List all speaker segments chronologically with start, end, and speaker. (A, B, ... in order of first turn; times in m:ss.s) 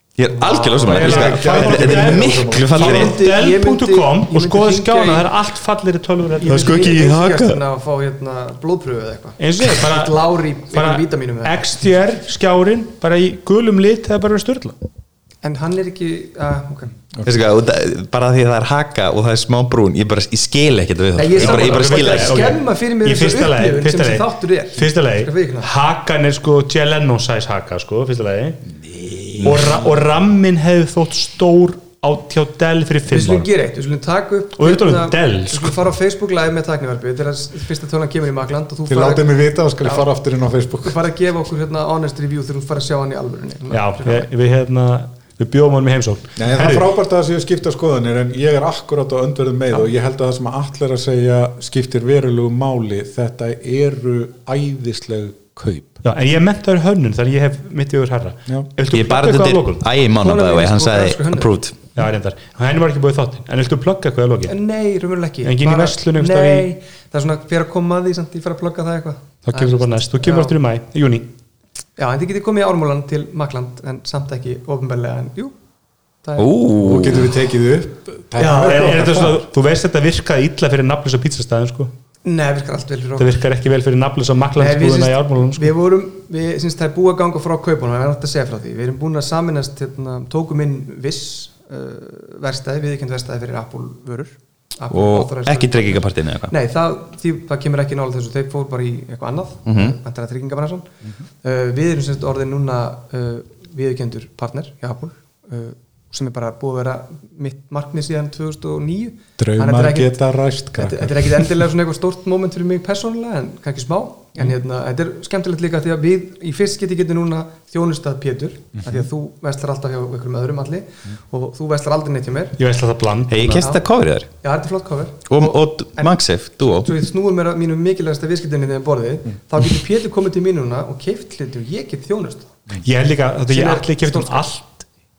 0:00.2-0:03.2 A
0:00.3-0:01.3 B
0:00.8-0:07.0 C
0:01.0-0:02.9 D
0:02.8-0:05.3 B
0:06.4-0:11.6 B
0:06.5-0:07.6 A
0:09.4-0:14.8 C
0:15.4-0:16.9 B
0:17.1-0:17.4 D
0:17.2-0:22.6 A
0:21.2-0:25.7 B
0:21.4-0:28.6 C
0:29.0-0:29.8 A
0:29.4-0:33.5 C
0:33.1-0:39.3 B
0:34.6-0:35.8 C
0:38.9-0:41.0 D
0:39.8-0:40.1 B
0:40.8-0:44.3 B
0:43.7-0:46.9 C
0:46.4-0:56.0 D
0:56.0-0:59.8 C
0:58.9-1:01.8 A
1:00.2-1:01.5 B
1:02.0-1:04.6 C
1:04.5-1:10.6 B
1:05.4-1:06.7 C
1:09.4-1:11.3 C
1:12.0-1:15.6 B
1:16.2-1:16.6 B
1:16.4-1:17.3 A
1:16.8-1:19.5 D
1:18.4-1:19.0 B
1:18.5-1:21.9 C
1:22.2-1:23.4 B
1:23.2-1:25.7 C
1:24.6-1:40.9 B
1:34.9-1:36.5 A
1:39.7-1:40.0 A
1:41.4-1:50.2 B
1:49.4-1:51.7 D
1:50.8-2:02.6 B
2:02.6-2:03.7 C
2:03.3-2:04.3 A
2:03.6-2:03.8 B
2:04.4-2:06.2 B
2:05.3-2:06.9 A
2:06.8-2:12.5 B
2:12.8-2:14.9 C
2:13.5-2:14.4 B